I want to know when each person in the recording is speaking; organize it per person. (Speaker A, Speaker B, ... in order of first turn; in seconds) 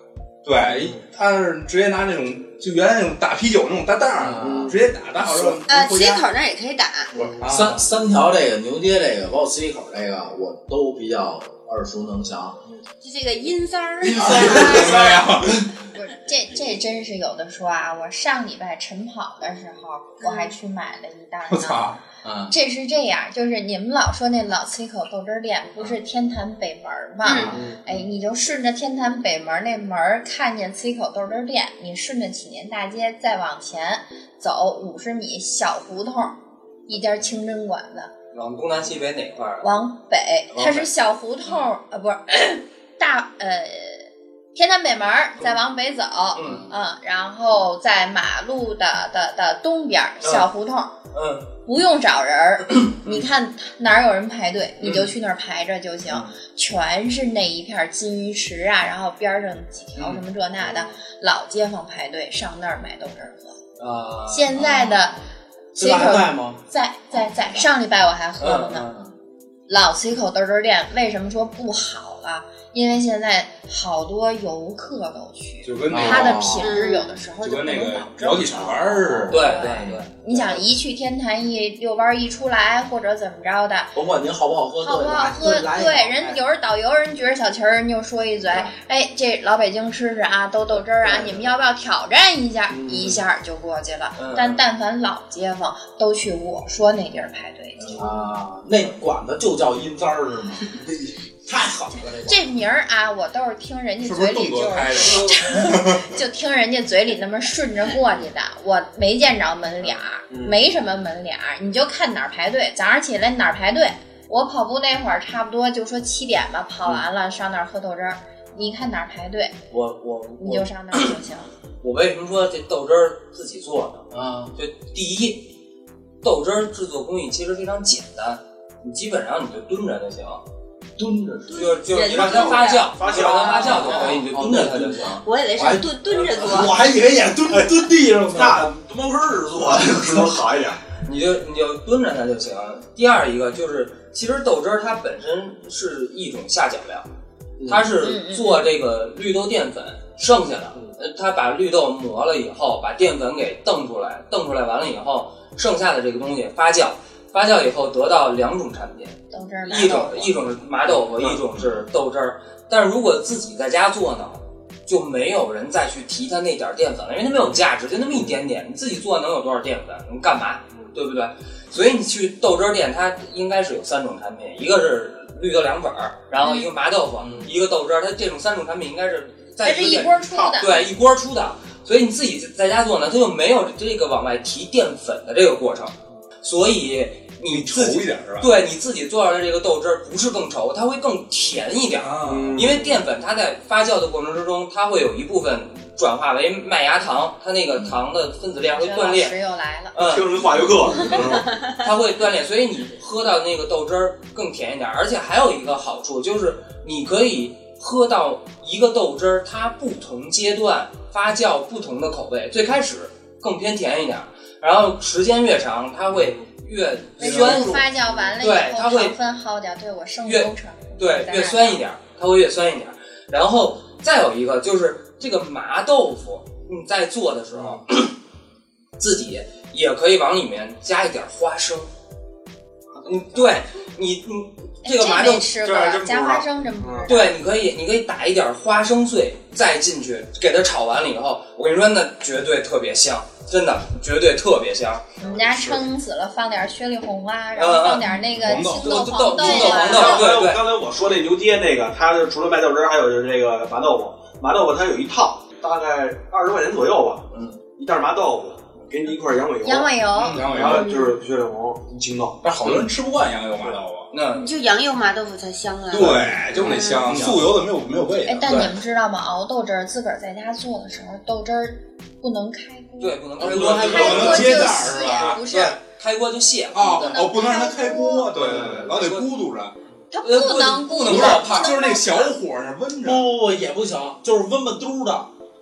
Speaker A: 0.4-6.3, 7.4-7.8, 14.0-15.7, 21.5-22.0, 75.6-76.7, 77.4-79.3, 104.0-106.1, 187.5-188.6, 192.0-192.7, 217.2-217.9, 248.3-249.2, 260.2-261.0, 262.4-264.1, 265.9-268.7, 273.4-275.4, 276.7-279.7, 281.0-283.3
Speaker B: 0.7-1.0, 4.4-4.8, 7.1-7.8, 27.5-27.9, 60.6-60.9, 92.7-93.2, 110.3-110.6, 132.0-134.2, 136.6-136.9, 137.4-140.8, 147.6-147.9, 160.9-161.7, 192.2-193.0, 200.0-201.5, 216.1-216.5, 218.0-218.3, 227.5-227.8, 232.9-233.5, 235.6-237.1, 245.2-245.8, 249.6-262.8, 266.1-267.5, 273.4-274.5, 278.4-278.9
Speaker C: 4.2-4.8, 7.4-12.6, 14.2-14.8, 22.2-22.5, 27.4-27.8, 46.4-46.7, 64.5-65.0, 65.8-67.7, 75.9-76.7, 78.6-80.0, 84.0-86.4, 97.9-100.8, 101.5-102.5, 124.1-124.5, 131.0-131.8, 133.8-138.7, 139.8-140.2, 177.2-177.5, 283.0-285.3
Speaker D: 5.7-7.1, 13.0-15.1, 20.2-20.6, 27.2-27.6, 76.6-77.1, 131.9-133.9, 135.2-136.8, 249.4-250.2, 264.3-267.2, 280.4-280.6
Speaker E: 15.8-22.0, 22.5-36.4, 36.9-38.1, 39.6-50.9, 51.6-63.6, 64.3-65.2, 65.8-68.9, 69.7-84.0, 84.8-98.1, 102.3-119.6, 120.4-121.5, 148.0-148.7, 159.3-160.4, 179.6-180.8, 198.8-200.0, 217.2-221.8, 234.8-237.4, 245.2-250.2, 259.6-261.1, 268.2-275.8, 276.8-278.3, 280.1-282.3
Speaker F: 38.3-39.7, 40.5-40.9, 46.3-46.7, 50.2-50.5, 51.1-51.5, 54.8-55.1, 63.8-64.7, 68.4-69.0, 79.3-80.1, 94.2-94.6, 104.9-105.5, 119.7-121.1, 121.8-125.5, 126.2-130.4, 131.5-135.2, 141.0-147.1, 147.7-199.4, 199.9-217.9, 218.4-219.2, 220.2-228.1, 229.0-231.9, 233.0-235.5, 237.1-245.1, 247.6-248.1, 248.8-250.7, 264.1-264.5, 268.4-268.7, 273.0-277.2, 278.4-279.3, 280.2-281.7